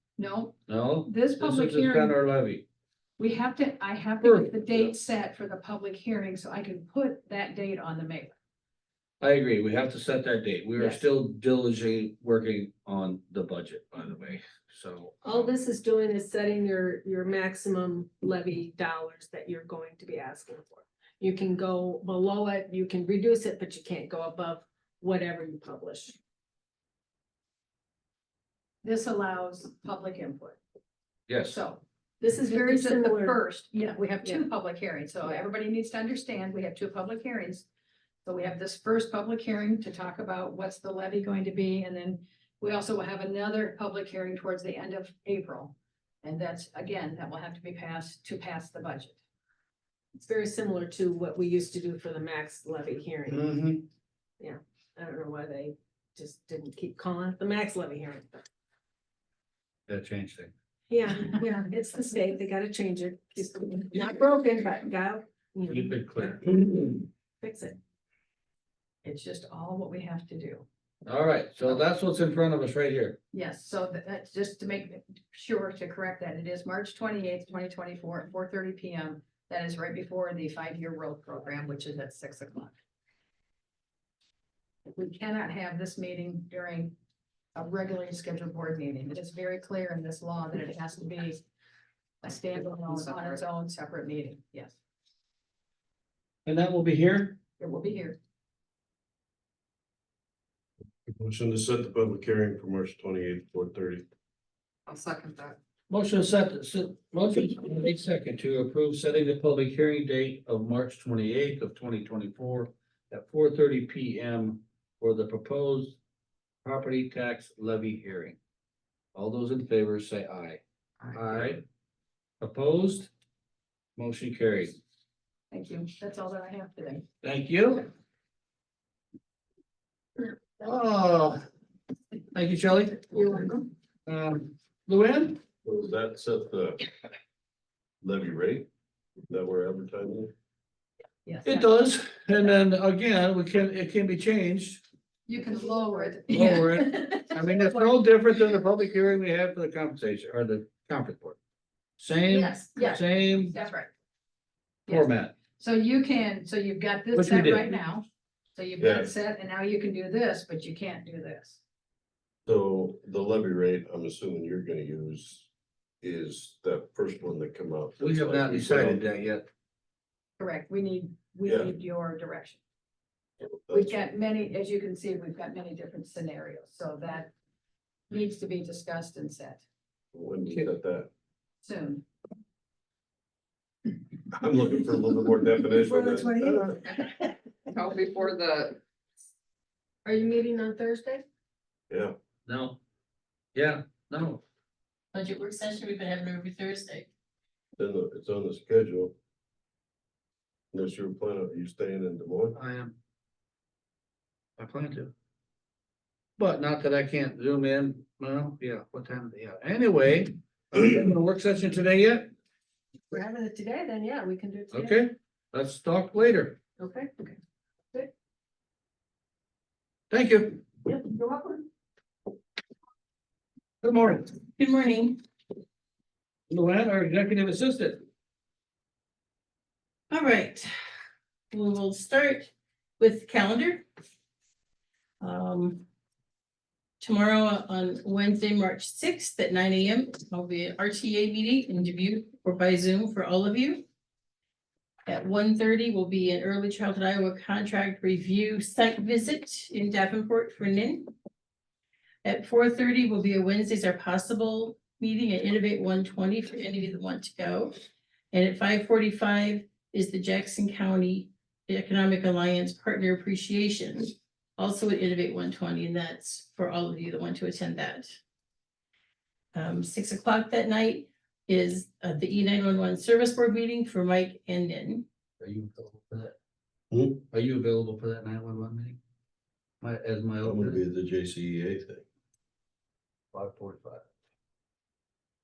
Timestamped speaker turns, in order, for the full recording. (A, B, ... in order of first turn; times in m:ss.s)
0:00.2-0:02.2 A
0:00.7-0:02.6 B
0:03.2-0:08.4 A
0:04.2-0:04.5 B
0:09.2-0:15.5 B
0:15.2-0:26.2 C
0:28.8-0:30.6 A
0:31.3-0:31.6 B
0:31.5-0:31.8 A
0:32.2-0:33.4 C
0:32.4-0:37.6 A
0:38.2-0:49.2 A
0:50.1-0:53.5 C
0:53.3-0:53.8 B
0:54.4-0:58.4 C
0:59.9-1:00.5 B
1:00.9-1:06.0 C
1:03.9-1:04.2 B
1:05.7-1:07.0 B
1:07.4-1:07.8 C
1:09.0-1:10.6 A
1:11.0-1:13.2 B
1:13.3-1:22.7 A
1:24.8-1:26.9 A
1:27.5-1:31.4 A
1:32.2-1:34.8 A
1:36.4-1:37.4 B
1:37.6-1:38.2 A
1:41.1-1:44.0 D
1:45.9-1:56.0 B
1:56.6-1:58.4 B
1:59.1-2:01.6 B
2:02.4-2:03.1 B
2:04.0-2:04.8 B
2:05.5-2:07.0 A
2:07.2-2:07.9 B
2:10.6-2:11.4 B
2:12.3-2:13.1 B
2:13.1-2:13.6 C
2:14.1-2:15.4 B
2:15.6-2:16.8 D
2:18.0-2:18.7 D
2:19.3-2:20.3 D
2:21.2-2:21.7 A
2:21.4-2:24.8 B
2:25.3-2:27.8 A
2:26.3-2:31.4 B
2:32.0-2:33.5 B
2:32.3-2:33.9 A
2:34.9-2:41.6 A
2:34.9-2:35.3 B
2:37.1-2:37.7 B
2:38.8-2:39.1 D
2:42.4-2:45.5 D
2:46.0-2:49.0 D
2:48.0-2:49.5 B
2:50.4-2:52.6 A
2:51.4-2:51.7 D
2:53.4-2:54.0 D
2:53.7-2:57.3 A
2:58.1-2:59.6 A
3:00.1-3:01.1 D
3:01.6-3:02.0 A
3:04.4-3:06.8 D
3:06.0-3:06.5 C
3:10.0-3:11.2 C
3:11.9-3:12.2 D
3:12.4-3:12.8 B
3:13.5-3:14.4 B
3:15.1-3:17.1 E
3:17.8-3:19.1 D
3:20.7-3:22.6 D
3:22.5-3:22.9 B
3:24.6-3:25.1 B
3:26.4-3:32.3 B
3:33.1-3:35.0 C
3:34.7-3:36.6 B
3:36.8-3:37.4 C
3:40.1-3:40.6 B
3:40.8-3:41.6 C
3:43.8-3:44.3 B
3:44.6-3:45.2 E
3:46.5-3:48.0 B
3:50.1-3:50.7 E
3:51.5-3:53.8 E
3:55.2-3:55.8 E
3:57.0-4:03.8 E
4:05.0-4:11.1 E
4:12.2-4:17.7 E
4:18.3-4:28.1 E
4:29.5-4:35.0 E
4:35.4-4:36.3 B
4:36.9-4:37.2 D
4:37.3-4:39.0 B
4:39.8-4:40.8 B
4:40.4-4:42.0 D
4:43.3-4:44.0 B